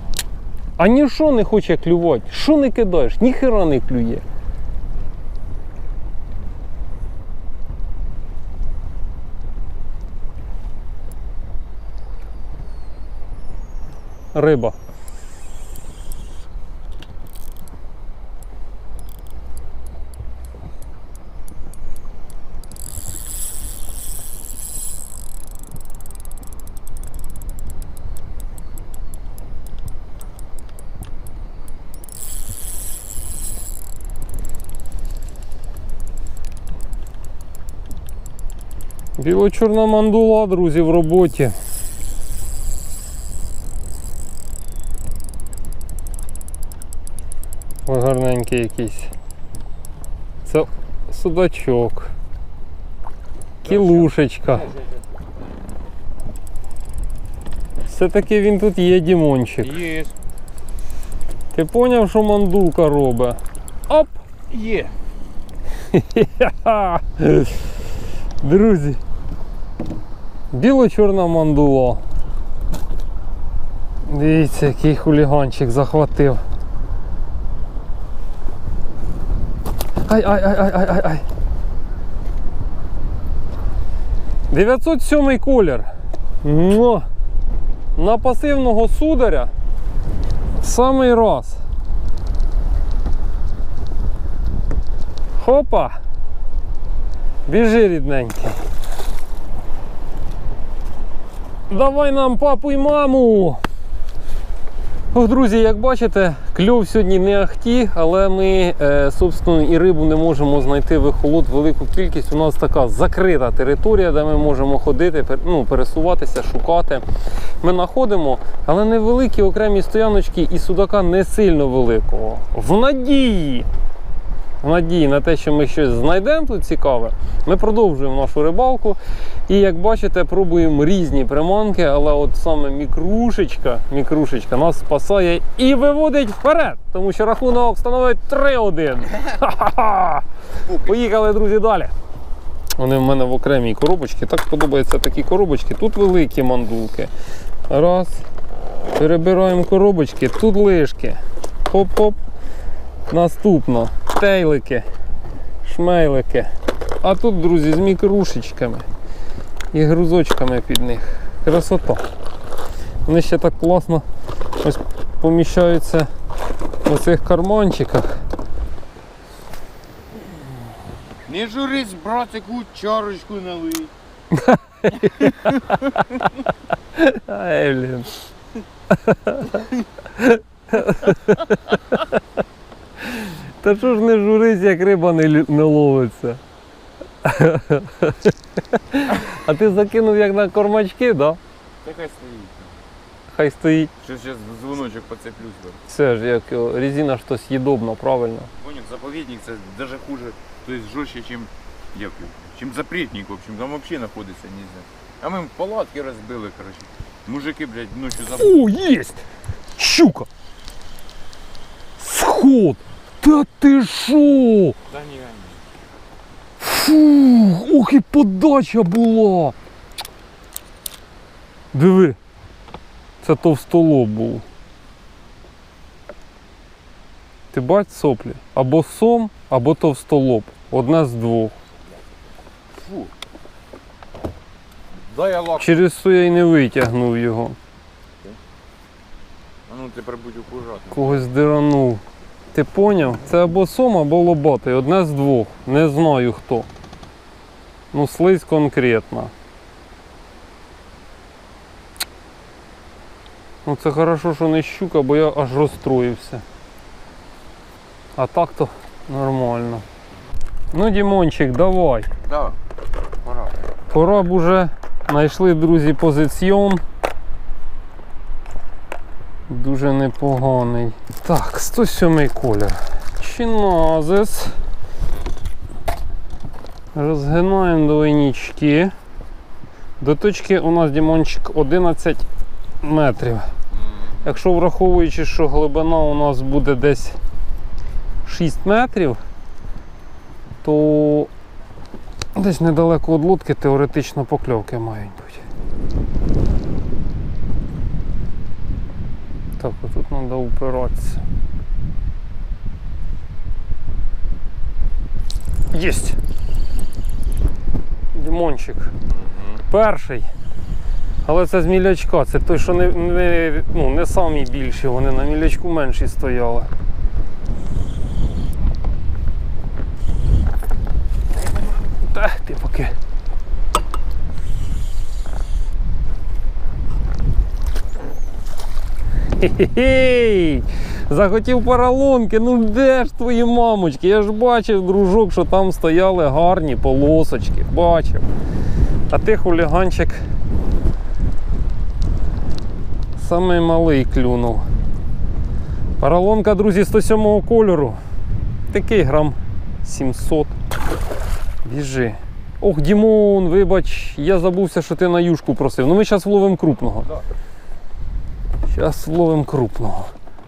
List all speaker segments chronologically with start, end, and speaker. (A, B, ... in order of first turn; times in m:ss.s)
0:00.8-0:04.2 A
0:14.3-0:14.8 A
0:39.2-0:41.5 A
0:47.8-0:49.1 A
0:50.4-0:52.1 A
0:53.6-0:55.1 B
0:53.6-0:54.7 A
0:57.9-0:59.8 A
0:59.6-1:00.1 B
1:01.5-1:04.2 A
1:04.5-1:04.9 B
1:05.9-1:07.7 A
1:08.4-1:09.0 A
1:10.5-1:12.0 A
1:14.1-1:16.4 A
1:20.1-1:21.2 A
1:24.5-1:25.9 A
1:26.4-1:27.0 A
1:28.0-1:29.5 A
1:30.6-1:31.6 A
1:35.4-1:36.0 A
1:37.5-1:38.6 A
1:41.7-1:43.6 A
1:45.1-1:57.0 A
1:57.6-2:03.7 A
2:04.6-2:20.2 A
2:20.6-2:21.1 B
2:20.8-2:21.9 A
2:22.8-2:27.1 A
2:27.7-2:28.2 A
2:28.9-2:31.2 A
2:31.7-2:32.2 A
2:33.1-2:34.8 A
2:35.6-2:36.5 A
2:37.0-2:38.8 A
2:39.7-2:42.0 A
2:43.0-2:44.0 A
2:44.6-2:46.1 A
2:46.8-2:48.2 A
2:51.3-2:53.9 B
2:54.3-2:56.3 A
2:56.9-2:58.1 A
2:58.9-3:02.0 A
3:03.0-3:06.4 A
3:07.2-3:11.4 A
3:11.8-3:12.8 B
3:13.3-3:13.9 A
3:14.0-3:15.8 B
3:15.9-3:18.5 A
3:18.6-3:28.6 B
3:28.3-3:29.2 A
3:29.8-3:30.3 A
3:32.0-3:34.8 A
3:34.9-3:35.6 B
3:36.6-3:39.5 A
3:41.7-3:42.2 A
3:43.2-3:44.4 A
3:47.5-3:51.5 A
3:52.7-3:53.1 B
3:55.1-3:55.8 B
3:55.6-3:57.6 A
3:59.7-4:01.2 B
4:00.9-4:02.0 A
4:02.5-4:06.7 A
4:07.9-4:09.3 A
4:13.6-4:16.4 A
4:18.2-4:19.8 A
4:20.7-4:22.1 A
4:22.2-4:22.6 B
4:23.2-4:23.5 B
4:23.9-4:26.8 A
4:29.5-4:34.5 A
4:36.9-4:38.9 A
4:40.0-4:42.2 A
4:42.8-4:43.5 A
4:44.2-4:47.2 A
4:48.2-4:49.2 A
4:50.6-4:51.3 A
4:52.4-4:55.4 A
4:59.6-5:01.2 A
5:05.7-5:06.2 A
5:08.1-5:08.9 A
5:09.1-5:09.6 B
5:09.7-5:10.3 A
5:11.2-5:16.7 A
5:22.0-5:22.9 A
5:29.4-5:38.2 A
5:39.1-5:40.2 A
5:43.2-5:44.6 A
5:46.0-5:48.0 A
5:48.7-5:50.5 A
5:51.6-5:57.1 A
5:58.7-6:00.1 A